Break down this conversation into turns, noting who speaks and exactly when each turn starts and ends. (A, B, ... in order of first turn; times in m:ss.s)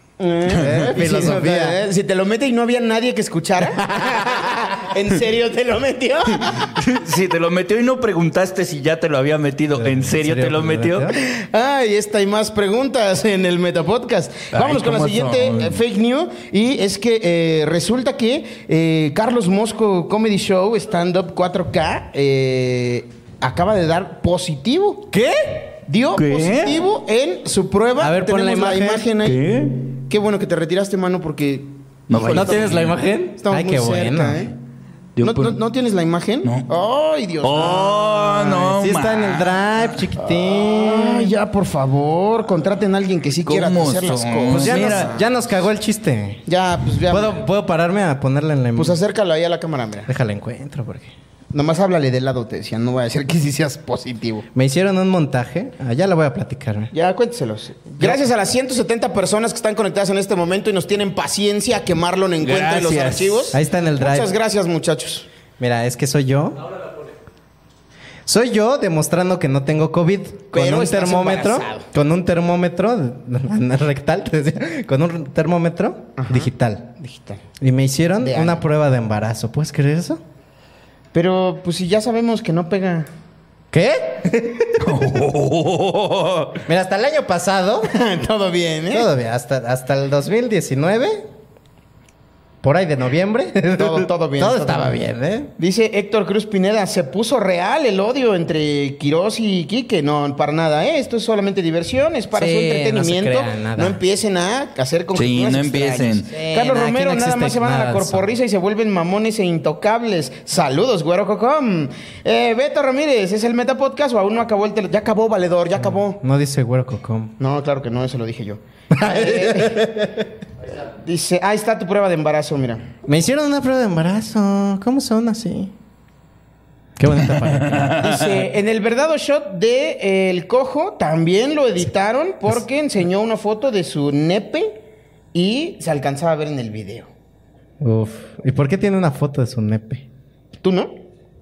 0:00.2-0:06.6 A
0:00.5-0:01.8 B
0:03.8-0:04.4 B
0:06.8-0:11.1 C
0:09.8-0:11.2 B
0:11.2-0:25.1 A
0:14.5-0:15.8 C
0:25.1-0:25.6 B
0:25.9-0:29.4 A
0:26.1-0:26.8 C
0:28.0-0:29.0 B
0:29.2-0:29.8 C
0:30.1-0:34.5 A
0:32.1-0:32.9 C
0:32.3-0:34.5 B
0:35.2-0:35.6 C
0:35.2-0:38.6 A
0:37.4-0:39.6 C
0:38.6-0:41.3 B
0:40.2-0:45.2 A
0:43.4-0:45.1 C
0:44.5-0:46.4 B
0:46.4-0:47.4 A
0:47.1-0:49.0 B
0:48.8-0:50.1 A
0:50.1-0:51.1 B
0:51.5-0:54.4 A
0:54.5-0:56.9 B
0:56.9-1:05.2 A
0:58.0-0:58.2 B
1:02.4-1:03.5 C
1:03.5-1:04.3 B
1:05.6-1:06.6 B
1:08.3-1:16.9 B
1:10.5-1:11.8 A
1:16.2-1:17.4 A
1:17.6-1:20.2 B
1:18.2-1:18.6 A
1:21.1-1:23.1 A
1:23.7-1:24.9 B
1:24.8-1:26.6 C
1:26.6-1:27.9 B
1:27.9-1:29.1 A
1:28.9-1:31.2 B
1:32.6-1:35.5 B
1:33.8-1:34.9 A
1:35.6-1:56.2 A
1:42.3-1:44.0 B
1:45.1-1:46.3 C
1:46.3-1:48.3 B
1:55.8-1:57.3 B
1:57.4-1:59.9 A
1:58.9-2:00.2 B
2:00.8-2:02.8 A
2:03.0-2:05.7 B
2:07.0-2:08.0 B
2:07.7-2:08.1 C
2:08.0-2:14.8 A
2:15.3-2:17.1 A
2:17.8-2:20.0 B
2:20.6-2:20.9 A